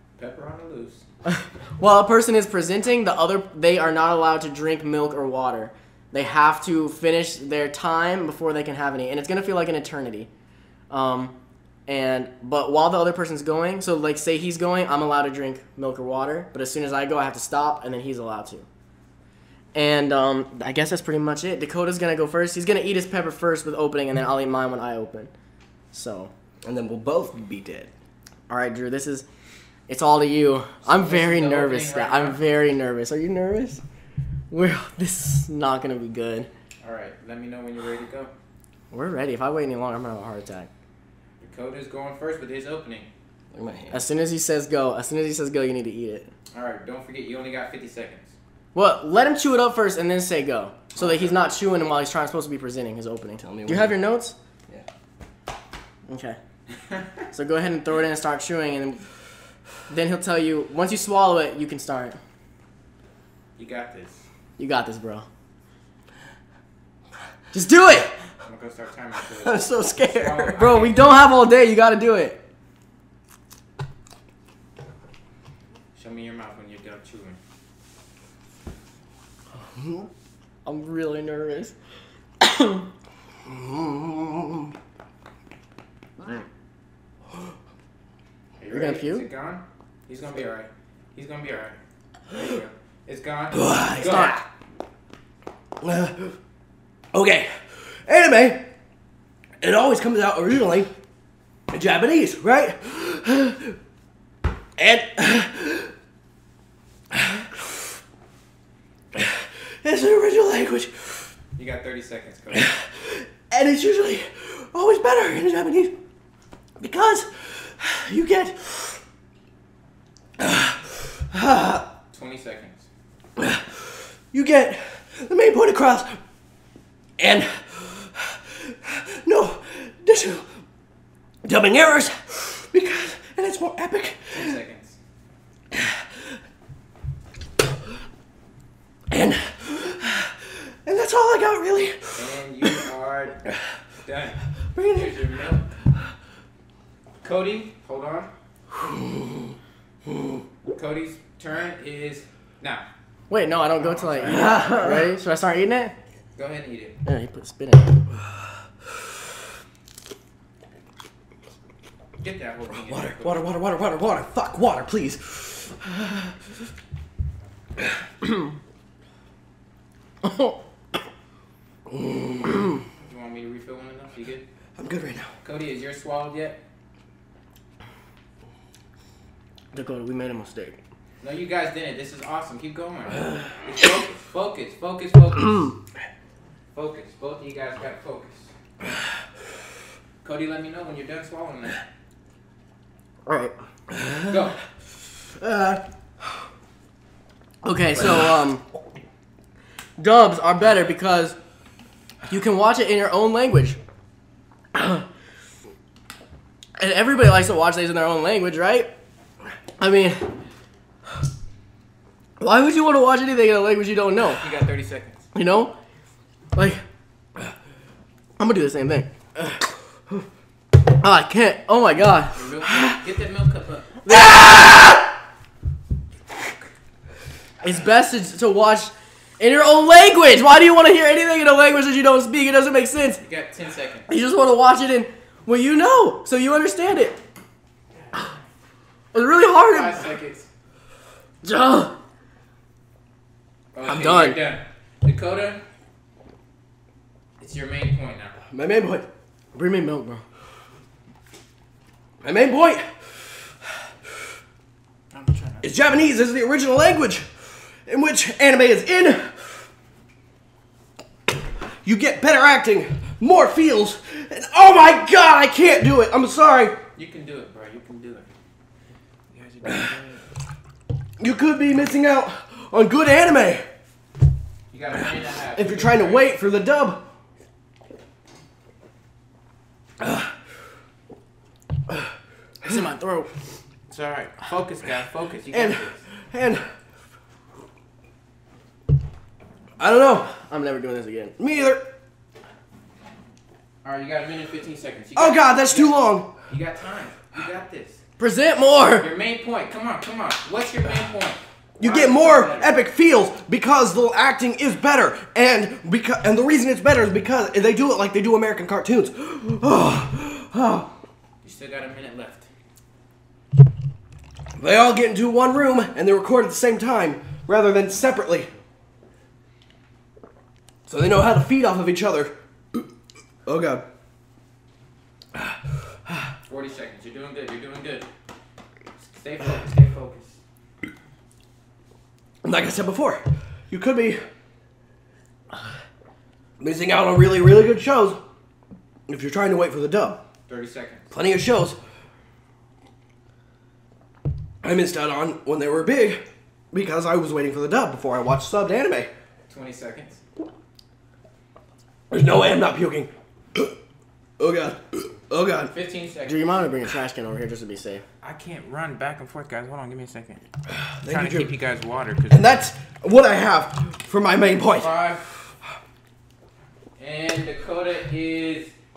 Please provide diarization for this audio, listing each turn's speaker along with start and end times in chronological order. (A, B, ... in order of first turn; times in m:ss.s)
0:00.2-0:01.0 A
0:01.3-0:10.3 B
0:10.9-0:11.4 B
0:11.9-0:18.7 B
0:19.7-0:25.3 B
0:25.9-0:26.3 B
0:26.6-0:27.9 C
0:28.5-0:29.2 B
0:29.9-0:33.8 B
0:30.8-0:32.4 A
0:34.5-0:36.5 B
0:36.8-0:38.3 A
0:38.9-0:40.7 B
0:41.4-0:43.1 A
0:43.5-0:44.0 C
0:43.9-0:46.3 B
0:46.5-0:48.3 A
0:48.7-0:54.4 B
0:51.0-0:51.3 C
0:53.4-0:54.0 C
0:56.1-0:56.4 B
0:57.3-0:59.0 B
0:59.9-1:02.2 B
1:03.6-1:04.2 A
1:04.6-1:05.2 B
1:07.5-1:08.1 B
1:08.4-1:11.0 A
1:09.4-1:10.7 C
1:10.6-1:12.4 B
1:15.9-1:17.4 A
1:19.7-1:20.1 C
1:20.6-1:21.7 B
1:22.4-1:22.9 B
1:23.5-1:24.6 C
1:28.6-1:31.8 A
1:28.7-1:29.2 B
1:32.3-1:34.4 A
1:33.5-1:34.3 C
1:34.0-1:34.4 B
1:35.8-1:36.3 C
1:37.1-1:38.7 C
1:39.6-1:40.9 C
1:41.7-1:43.8 C
1:44.8-1:45.9 C
1:47.1-1:47.4 C
1:49.1-1:51.3 C
1:51.6-1:52.7 A
1:52.5-1:56.0 C
1:56.8-1:59.0 C
2:00.4-2:01.8 C
2:02.1-2:02.8 A
2:03.4-2:03.6 C
2:04.3-2:06.2 C
2:07.2-2:10.4 C
2:11.4-2:14.6 C
2:14.3-2:15.0 A
2:19.1-2:20.3 C
2:20.8-2:22.8 C
2:22.2-2:23.4 A
2:24.0-2:25.7 A
2:24.7-2:25.2 C
2:27.2-2:28.3 A
2:28.8-2:29.1 C
2:30.7-2:32.8 A
2:33.3-2:35.9 B
2:33.8-2:34.7 A
2:34.2-2:35.1 C
2:36.4-2:37.0 A
2:37.0-2:38.0 B
2:42.2-2:43.5 A
2:42.8-2:46.3 C
2:50.2-2:50.6 B
2:51.9-2:52.6 C
2:53.0-2:54.4 A
2:54.8-2:55.3 C
2:55.4-2:56.6 A
2:59.7-3:00.8 B
3:01.2-3:05.7 A
3:06.7-3:08.5 A
3:10.2-3:11.8 A
3:13.2-3:13.5 B
3:13.9-3:14.4 C
3:14.3-3:14.6 A
3:15.4-3:15.8 C
3:17.6-3:18.6 B
3:20.0-3:21.4 B
3:22.3-3:23.8 B
3:24.7-3:25.0 B
3:26.8-3:28.9 B
3:29.8-3:30.3 B
3:32.4-3:34.4 B
3:34.2-3:35.3 A
3:35.3-3:35.7 B
3:36.5-3:36.8 B
3:38.4-3:39.1 B
3:40.9-3:42.4 B
3:42.3-3:44.0 A
3:44.0-3:44.9 B
3:44.1-3:45.0 C
3:47.6-3:53.2 B
3:53.2-3:54.1 A
3:54.1-3:57.2 B
3:59.1-4:00.1 B
3:59.6-4:00.5 A
4:01.4-4:02.0 B
4:03.7-4:05.6 A
4:03.8-4:04.4 B
4:07.4-4:08.3 A
4:08.5-4:09.1 C
4:09.5-4:10.2 B
4:12.2-4:12.8 C
4:15.1-4:15.7 A
4:15.6-4:17.3 C
4:17.8-4:19.5 C
4:21.8-4:26.8 C
4:27.0-4:28.3 A
4:29.3-4:30.2 A
4:31.2-4:33.6 C
4:34.7-4:36.3 A
4:35.5-4:37.0 C
4:40.0-4:40.3 C
4:42.6-4:43.3 B
4:43.9-4:46.0 A
4:45.5-4:46.7 C
4:49.8-4:50.3 C
4:50.4-4:51.3 B
4:51.4-4:51.8 C
4:53.8-4:55.9 A
4:55.2-4:56.3 C
4:56.5-4:58.0 A
4:58.2-4:59.1 B
4:59.0-5:02.7 A
5:01.8-5:10.9 C
5:11.4-5:12.5 A
5:14.6-5:18.5 C
5:20.9-5:22.8 C
5:23.4-5:23.8 C
5:26.5-5:28.1 A
5:29.0-5:30.4 A
5:32.4-5:34.2 C
5:36.6-5:38.2 C
5:39.1-5:40.2 C
5:40.5-5:41.1 A
5:41.1-5:41.8 C
5:44.6-5:49.1 C
5:49.5-5:50.2 A
5:52.1-5:53.7 C
5:54.4-5:55.7 C
5:55.7-5:56.6 A
5:56.3-5:58.0 B
5:58.2-6:00.4 A
6:00.8-6:01.5 C
6:01.0-6:02.5 A
6:02.3-6:04.9 C
6:04.7-6:05.2 A
6:07.0-6:08.7 A